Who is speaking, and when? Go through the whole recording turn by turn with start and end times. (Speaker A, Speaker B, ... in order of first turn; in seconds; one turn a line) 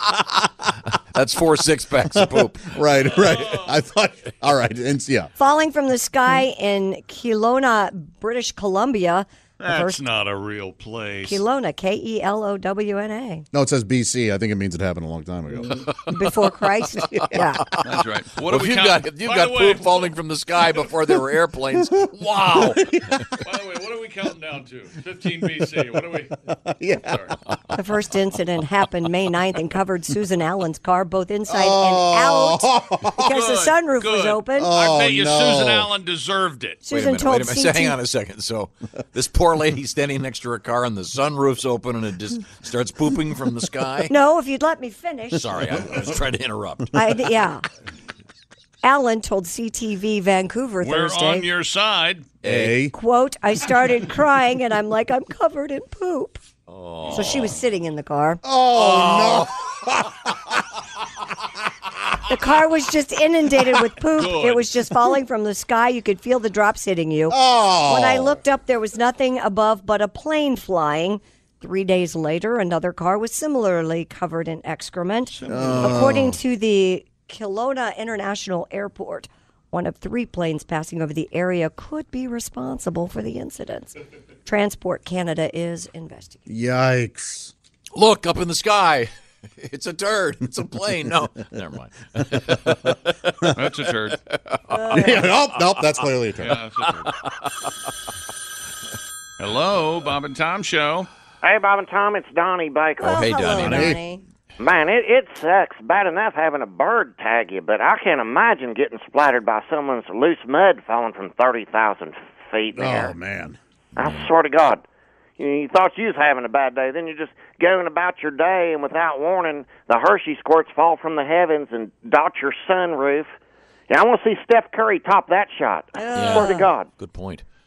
Speaker A: 0.9-2.8
Speaker B: 2.2-5.3
Speaker C: 3.1-3.8
Speaker D: 5.4-10.0
Speaker C: 9.6-11.4
Speaker D: 11.2-13.5
Speaker B: 13.5-15.9
Speaker D: 16.1-17.7
Speaker A: 16.1-16.3
Speaker A: 17.0-22.8
Speaker C: 17.9-20.1
Speaker B: 22.0-23.3
Speaker C: 23.4-26.4
Speaker B: 26.8-27.2
Speaker C: 26.9-27.3
Speaker D: 27.7-34.7
Speaker B: 31.5-33.3
Speaker C: 33.2-36.8
Speaker B: 34.6-35.9
Speaker D: 36.8-38.0
Speaker A: 36.9-44.1
Speaker D: 44.1-45.6
Speaker A: 45.3-47.0
Speaker D: 46.9-47.6
Speaker D: 48.8-51.5
Speaker C: 50.8-52.3
Speaker A: 52.4-52.7
Speaker B: 52.4-52.9
Speaker D: 52.9-56.4
Speaker A: 56.7-57.6
Speaker D: 57.1-59.5
Speaker B: 58.4-60.5
Speaker D: 62.3-83.9
Speaker C: 64.2-64.7
Speaker B: 67.3-68.4
Speaker C: 75.3-76.0
Speaker B: 75.5-76.4
Speaker D: 84.5-86.4
Speaker B: 86.5-87.5
Speaker A: 87.9-89.1
Speaker A: 89.6-93.4
Speaker C: 93.6-94.2
Speaker A: 94.2-95.0
Speaker D: 94.7-95.3
Speaker B: 94.9-96.6
Speaker C: 96.4-97.1
Speaker A: 96.8-97.5
Speaker C: 99.4-101.1
Speaker E: 101.4-103.3
Speaker A: 103.0-104.0
Speaker D: 103.0-104.2
Speaker B: 103.6-104.0
Speaker E: 104.6-113.1
Speaker B: 112.8-113.6
Speaker E: 114.0-114.8
Speaker A: 114.0-114.3
Speaker E: 115.4-123.3
Speaker E: 123.9-126.9
Speaker D: 126.0-126.7
Speaker A: 126.2-127.4